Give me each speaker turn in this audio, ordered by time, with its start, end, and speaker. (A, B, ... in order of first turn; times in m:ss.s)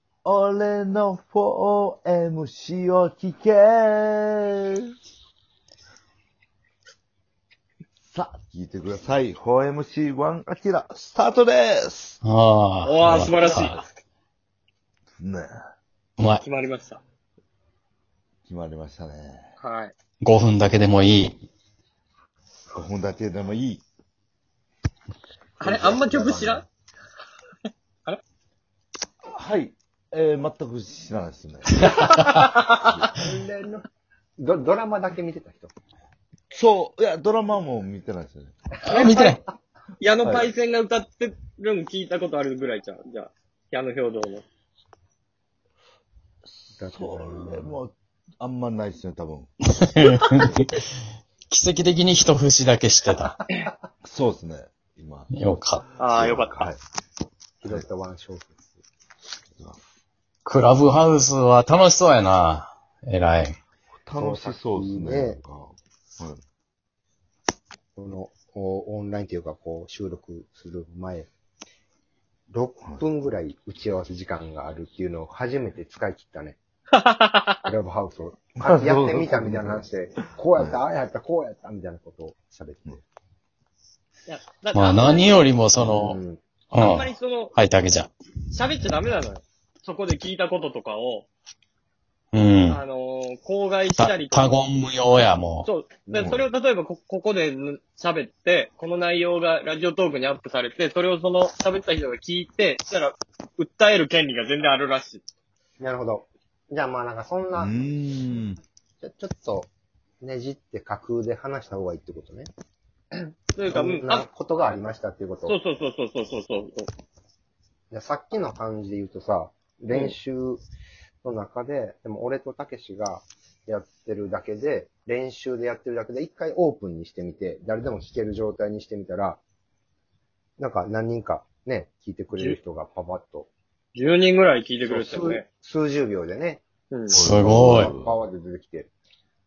0:00.2-0:04.9 A
0:08.1-0:12.2 A
0:12.2-0:13.8 B
0:12.8-0:13.8 C
0:15.2-0:15.6 A
0:16.2-0:16.4 B
0:16.4-0:17.0 C
0:18.5-0:19.5 A
0:19.6-0:19.9 C
0:20.2-0:21.4 B
0:22.7-0:23.8 A
0:25.6-0:26.6 C
0:25.6-0:26.7 D
0:29.3-0:31.9 A
0:31.8-0:32.9 C
0:31.8-0:32.4 B
0:33.1-0:33.9 D
0:34.4-0:35.7 D
0:36.5-0:38.6 A
0:38.8-0:39.4 B
0:39.0-0:39.3 D
0:40.0-0:44.4 C
0:40.2-0:40.5 A
0:46.5-0:49.5 A
0:46.8-0:47.8 D
0:49.8-0:50.8 B
0:51.5-0:53.3 B
0:54.0-0:55.3 A
0:55.3-0:55.9 B
0:56.0-0:56.7 C
0:56.1-0:56.8 A
0:57.6-0:58.8 D
0:59.6-0:59.8 A
1:00.4-1:03.6 B
1:04.1-1:06.4 A
1:04.2-1:05.4 D
1:08.0-1:11.3 D
1:12.5-1:16.6 D
1:16.9-1:17.6 C
1:17.7-1:23.0 D
1:18.6-1:19.9 A
1:24.3-1:25.5 C
1:24.7-1:26.2 B
1:25.8-1:26.4 D
1:26.7-1:27.6 C
1:26.7-1:28.1 B
1:28.5-1:31.3 C
1:32.3-1:32.8 B
1:32.7-1:34.6 C
1:34.0-1:35.7 B
1:35.6-1:45.2 C
1:36.1-1:36.4 D
1:36.2-1:36.5 A
1:45.8-1:48.4 D
1:47.6-1:48.6 A
1:49.0-1:49.7 D
1:50.2-1:52.5 D
1:53.6-1:54.2 C
1:53.7-1:55.6 D
1:55.4-1:56.9 C
1:57.9-2:00.6 D
2:01.2-2:09.4 D
2:10.6-2:13.5 D
2:14.0-2:15.4 C
2:14.8-2:16.6 D
2:16.9-2:17.2 C
2:17.1-2:18.1 A
2:17.2-2:17.9 B
2:17.3-2:18.9 D